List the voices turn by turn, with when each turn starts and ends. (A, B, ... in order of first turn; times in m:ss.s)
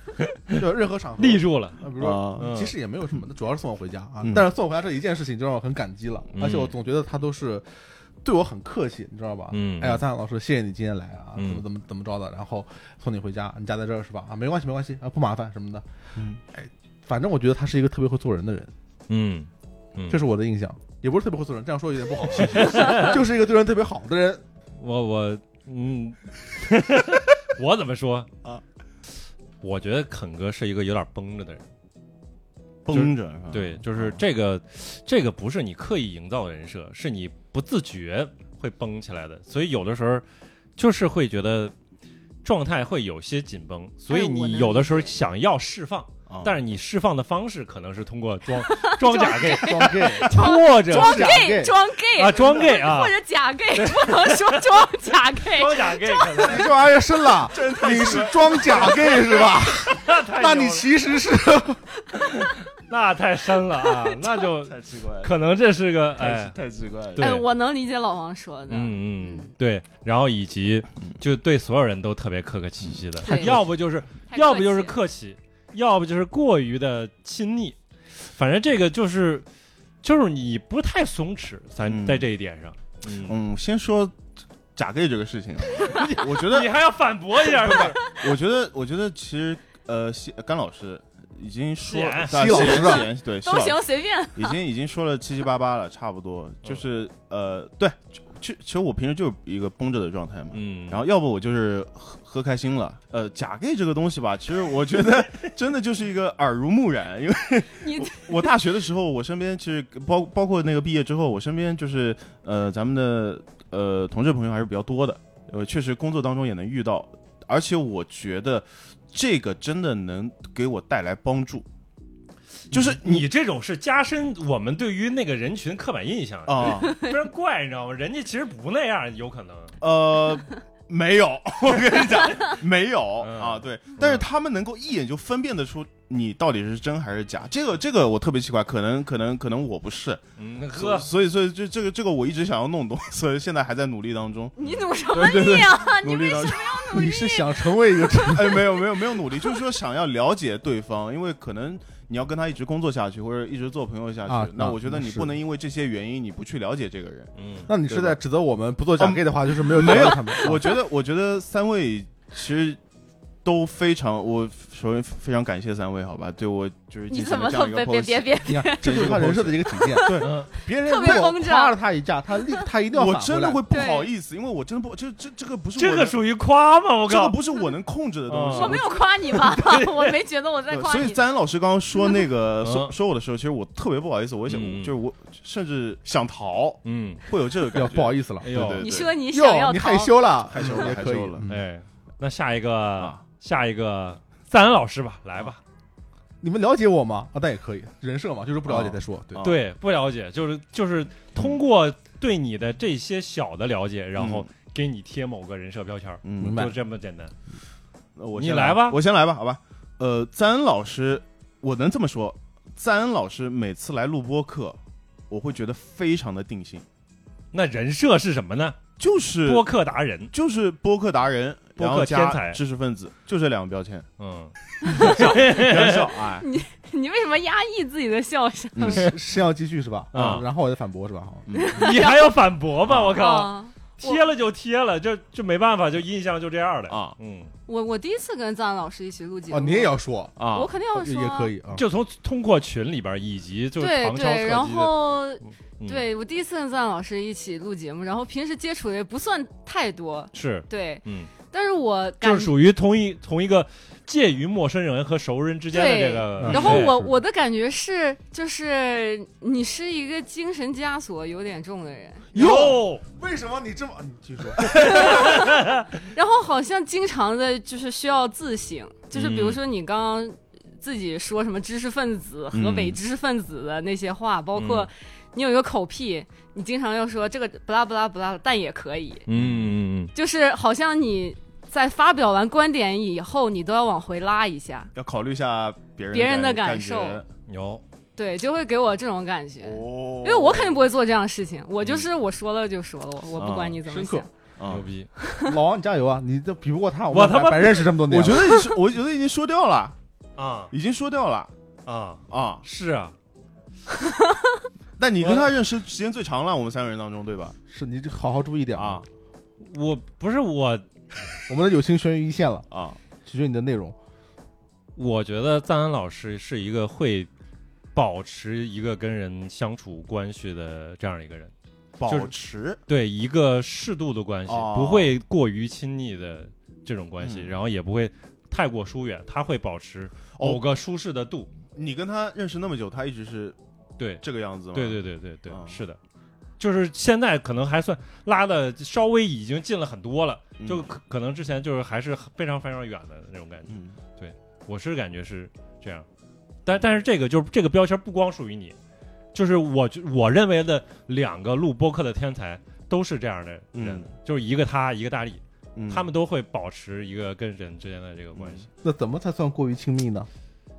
0:00.5-0:15.8 A
0:01.2-0:02.7 B
0:02.0-0:02.5 C
0:06.3-0:06.7 B
0:09.5-0:10.0 B
0:11.4-0:11.6 B
0:16.2-0:16.4 C
0:16.5-0:18.7 A
0:19.1-0:20.2 B
0:20.1-0:24.4 A
0:22.5-0:23.2 B
0:24.8-0:28.3 B
0:29.6-0:31.6 B
0:32.8-0:34.2 C
0:32.9-0:40.2 B
0:40.8-0:41.7 B
0:42.4-0:51.4 B
0:44.1-0:45.2 D
0:46.3-0:46.5 C
0:48.6-0:56.4 D
0:49.4-0:51.7 A
0:52.1-0:53.1 B
0:52.4-0:52.6 C
0:53.7-0:54.9 B
0:55.4-0:56.6 B
0:56.3-1:01.8 A
0:57.3-0:59.5 C
0:59.8-1:00.9 B
1:02.2-1:06.5 B
1:03.8-1:04.4 D
1:04.6-1:05.3 C
1:06.2-1:07.3 C
1:07.1-1:07.4 B
1:07.2-1:09.5 D
1:08.7-1:19.4 B
1:12.8-1:13.5 C
1:13.2-1:13.7 D
1:14.3-1:15.0 D
1:20.0-1:23.3 B
1:21.8-1:22.2 C
1:23.1-1:26.7 C
1:25.8-1:28.0 B
1:27.4-1:33.8 C
1:31.8-1:32.9 B
1:32.2-1:33.1 A
1:32.7-1:34.6 D
1:34.3-2:01.6 C
1:40.5-1:41.0 B
1:47.8-1:48.4 D
2:02.7-2:03.3 C
2:02.7-2:09.7 B
2:06.4-2:07.0 C
2:09.8-2:20.2 C
2:11.7-2:12.2 B
2:13.2-2:14.2 B
2:20.4-2:21.1 B
2:20.7-2:24.6 C
2:24.6-2:27.7 D
2:25.1-2:25.8 A
2:25.9-2:26.9 C
2:26.9-2:28.9 A
2:28.3-2:38.2 C
2:34.2-2:35.4 A
2:37.4-2:37.7 B
2:37.7-2:40.8 A
2:39.0-2:42.8 C
2:43.4-2:50.3 C
2:47.1-2:49.2 D
2:48.4-2:53.6 A
2:49.8-2:51.8 D
2:50.2-2:50.5 B
2:52.9-2:56.2 C
2:53.7-2:54.1 D
2:55.8-2:57.4 B
2:57.1-2:58.9 C
2:58.3-2:58.8 B
2:58.5-3:01.2 D
2:59.4-3:00.1 B
3:00.7-3:09.1 C
3:02.6-3:03.0 B
3:04.5-3:04.9 B
3:06.8-3:07.2 B
3:07.7-3:11.6 A
3:08.4-3:08.9 B
3:08.8-3:10.1 D
3:10.5-3:11.4 C
3:11.5-3:15.6 B
3:13.0-3:13.2 C
3:16.4-3:19.4 A
3:18.6-3:19.6 C
3:19.4-3:27.3 B
3:24.2-3:24.5 C
3:26.2-3:26.6 C
3:26.4-3:26.8 A
3:28.2-3:36.8 C
3:28.4-3:29.0 B
3:37.5-3:38.8 B
3:39.0-3:39.7 C
3:39.4-3:40.3 B
3:40.3-3:44.1 C
3:41.8-3:42.6 B
3:44.2-3:46.1 B
3:44.8-3:45.3 D
3:44.8-3:46.4 C
3:46.4-3:49.1 D
3:48.7-3:49.1 C
3:48.9-3:51.5 A
3:50.1-3:50.4 B
3:50.2-3:50.4 C
3:51.5-3:51.8 C
3:51.5-3:52.4 D
3:51.8-3:57.5 B
3:52.8-3:53.2 C
3:53.1-3:54.2 D
3:56.9-3:57.2 C
3:57.7-3:59.9 D
3:59.5-4:00.4 A
4:00.4-4:00.7 C
4:00.5-4:01.5 D
4:00.9-4:01.8 A
4:01.7-4:06.0 B
4:03.8-4:12.5 D
4:10.3-4:11.3 B
4:12.2-4:17.1 B
4:15.7-4:22.3 D
4:16.4-4:17.0 A
4:22.3-4:23.0 B
4:22.3-4:25.2 A
4:24.8-4:39.2 D
4:24.8-4:25.8 B
4:29.1-4:29.6 B
4:32.5-4:33.0 C
4:34.6-4:34.9 B
4:39.3-4:40.1 B
4:39.3-4:39.7 C
4:40.1-4:44.9 D
4:44.9-4:47.2 C
4:46.1-4:47.2 D
4:47.5-4:47.8 B
4:48.2-4:54.3 D
4:49.6-4:50.8 C
4:53.3-4:53.8 C
4:53.8-4:54.2 A
4:54.6-4:54.9 C
4:54.7-4:55.1 B
4:55.4-4:58.6 A
4:57.1-4:58.0 B
4:58.1-4:59.9 C
5:00.4-5:00.7 B
5:00.7-5:01.5 C
5:01.8-5:03.1 B
5:02.3-5:02.6 C
5:05.0-5:07.6 C
5:07.7-5:09.0 A
5:08.8-5:09.1 C
5:09.6-5:10.8 B
5:11.5-5:12.7 A
5:12.7-5:13.0 C
5:13.2-5:14.0 A
5:15.0-5:17.3 B
5:17.9-5:21.5 B
5:22.0-5:22.8 C
5:22.0-5:22.3 B
5:22.9-5:31.5 B
5:24.5-5:25.1 C
5:27.2-5:27.6 C
5:30.4-5:30.6 C
5:31.7-5:33.6 C
5:34.0-5:36.0 B
5:34.2-5:35.8 C
5:36.6-5:46.1 B
5:40.6-5:40.8 C
5:43.7-5:44.0 C
5:46.6-5:48.7 B
5:49.3-5:58.7 B
5:53.7-5:54.1 C
5:55.7-5:56.1 C
5:58.3-5:58.7 C
5:58.8-6:00.3 A